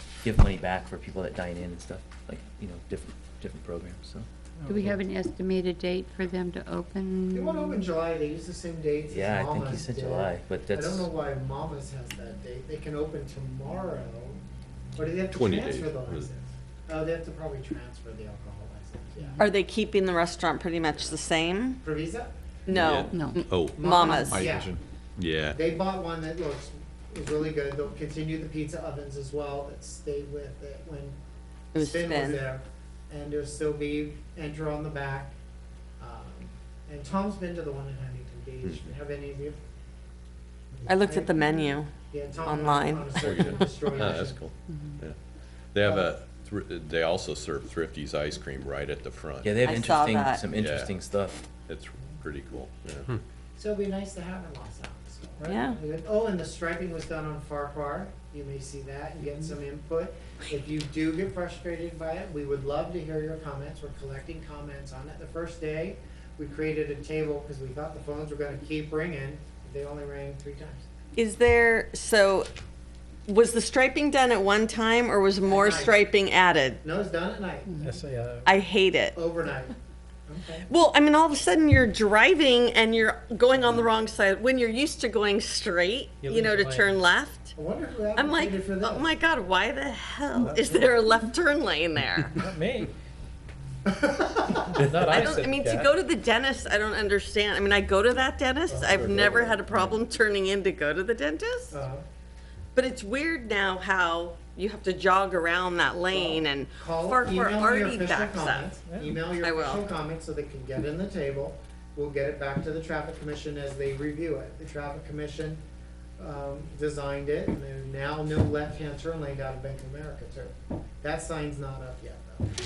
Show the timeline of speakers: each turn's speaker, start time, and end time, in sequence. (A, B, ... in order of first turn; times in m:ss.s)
0:00.2-0:04.3 A
0:04.6-0:05.0 B
0:04.7-0:07.8 C
0:07.3-0:14.4 D
0:09.1-0:11.1 A
0:15.0-0:19.5 D
0:15.3-0:16.3 E
0:19.4-0:21.8 F
0:21.8-0:22.3 D
0:22.7-0:23.2 F
0:22.7-0:25.6 E
0:23.1-0:23.4 C
0:23.7-0:24.5 F
0:23.7-0:24.8 D
0:25.5-0:31.2 D
0:31.7-0:32.4 F
0:31.7-0:35.3 D
0:36.0-0:39.6 D
0:40.8-0:44.4 D
0:40.8-0:43.6 F
0:43.2-0:45.2 E
0:44.7-0:45.0 C
0:45.7-0:49.6 E
0:45.8-0:46.1 D
0:49.4-0:51.4 A
0:49.6-0:50.4 F
0:50.5-0:50.9 E
0:51.6-0:53.2 E
0:53.6-1:10.8 D
0:55.5-0:55.8 F
1:11.1-1:12.5 F
1:13.3-1:16.8 F
1:15.4-1:16.0 D
1:16.8-1:17.8 D
1:17.7-1:18.0 C
1:17.8-1:18.6 B
1:18.4-1:19.2 F
1:19.1-1:19.7 D
1:20.2-1:20.7 D
1:20.6-1:27.5 F
1:26.2-1:27.0 B
1:27.5-1:29.1 D
1:28.1-1:32.4 F
1:30.3-1:31.0 B
1:32.2-1:32.9 B
1:33.9-1:34.7 D
1:34.7-1:35.9 B
1:35.0-1:41.8 F
1:38.7-1:39.9 D
1:41.7-1:42.0 D
1:42.7-1:48.8 F
1:46.1-1:55.6 D
1:48.8-1:49.2 B
1:49.4-1:49.9 F
1:56.2-2:02.5 D